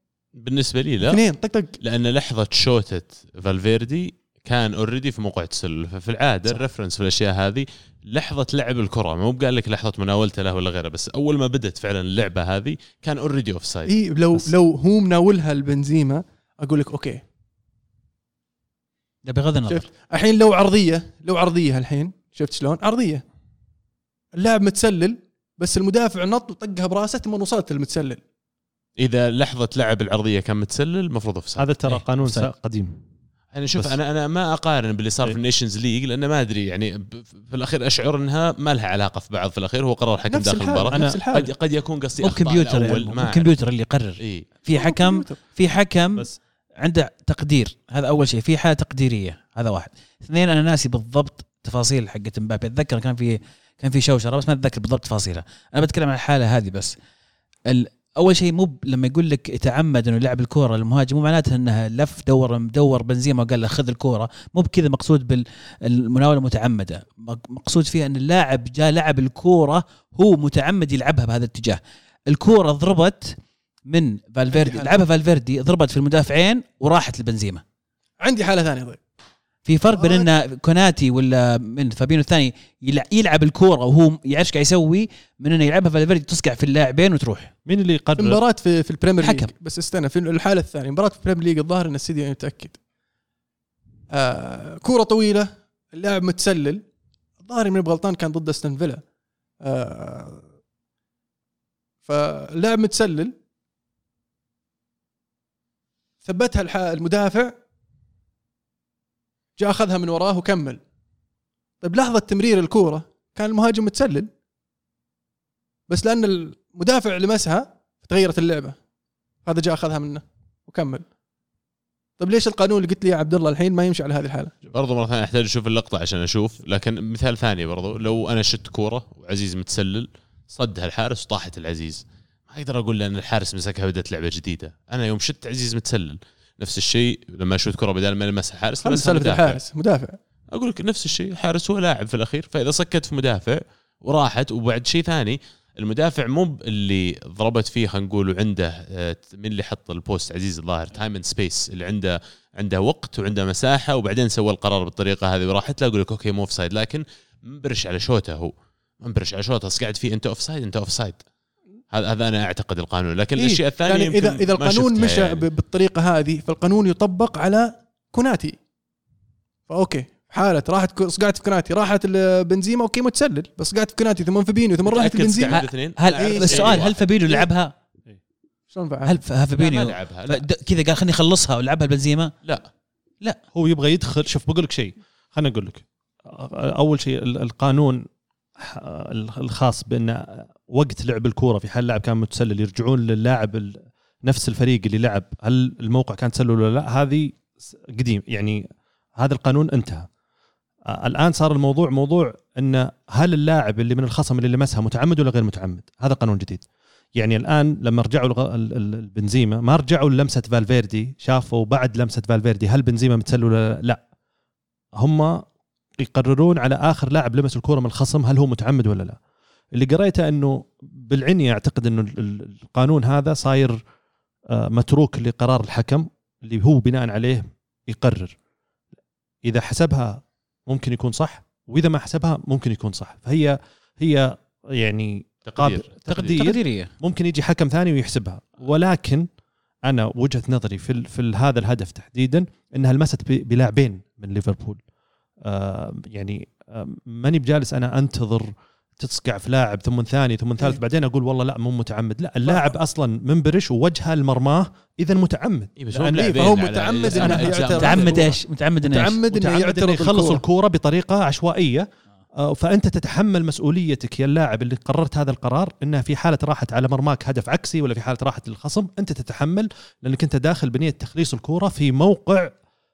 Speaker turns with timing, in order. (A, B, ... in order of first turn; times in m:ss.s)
0:00.4-0:01.2 A
0:01.1-0:01.7 B
0:01.8-0:13.9 A
0:13.9-0:17.2 B
0:19.2-0:19.9 C
0:19.7-0:23.2 B
0:24.3-0:28.2 B
0:29.0-0:31.7 A
0:31.6-0:33.0 D
0:31.9-0:32.5 C
0:33.5-0:43.6 A
0:40.3-0:41.5 B
0:40.9-0:41.2 D
0:42.2-0:57.0 C
0:44.2-0:44.5 A
0:44.7-0:45.4 B
0:57.7-1:17.6 C
1:14.5-1:15.0 B
1:18.2-1:19.0 B
1:19.6-1:27.5 C
1:19.9-1:20.3 B
1:27.7-1:28.4 D
1:28.2-1:32.8 B
1:29.2-1:29.5 C
1:34.1-1:36.8 B
1:37.4-1:39.0 B
1:39.6-1:40.4 B
1:42.0-1:43.3 B
1:46.2-1:47.5 B
1:49.6-1:50.8 B
1:51.8-1:54.3 B
1:55.9-1:58.8 B
1:59.4-2:01.0 B
2:02.2-2:04.5 B
2:04.7-2:19.6 A
2:18.8-2:20.2 B
2:20.5-2:41.2 A
2:41.9-2:45.4 A
2:43.4-2:48.6 B
2:49.7-2:55.6 B
2:54.8-2:57.0 A
2:55.5-2:57.7 C
2:56.1-2:56.9 B
2:58.7-2:59.8 B
2:59.0-3:02.3 C
2:59.6-3:00.4 A
3:03.5-3:08.0 D
3:08.6-3:18.6 D
3:19.2-3:20.1 D
3:20.9-3:34.0 D
3:35.0-3:35.5 D
3:36.0-3:39.2 D
3:39.7-3:43.8 D
3:44.5-3:48.4 D
3:49.4-3:59.3 D
3:55.5-3:56.4 A
3:56.1-3:56.9 C
3:59.8-4:04.8 D
4:05.4-4:18.3 D
4:12.5-4:12.8 B
4:15.8-4:18.3 A
4:16.0-4:18.3 B
4:17.8-4:19.2 C
4:18.8-4:20.4 B
4:19.3-4:21.9 D
4:22.4-4:32.5 D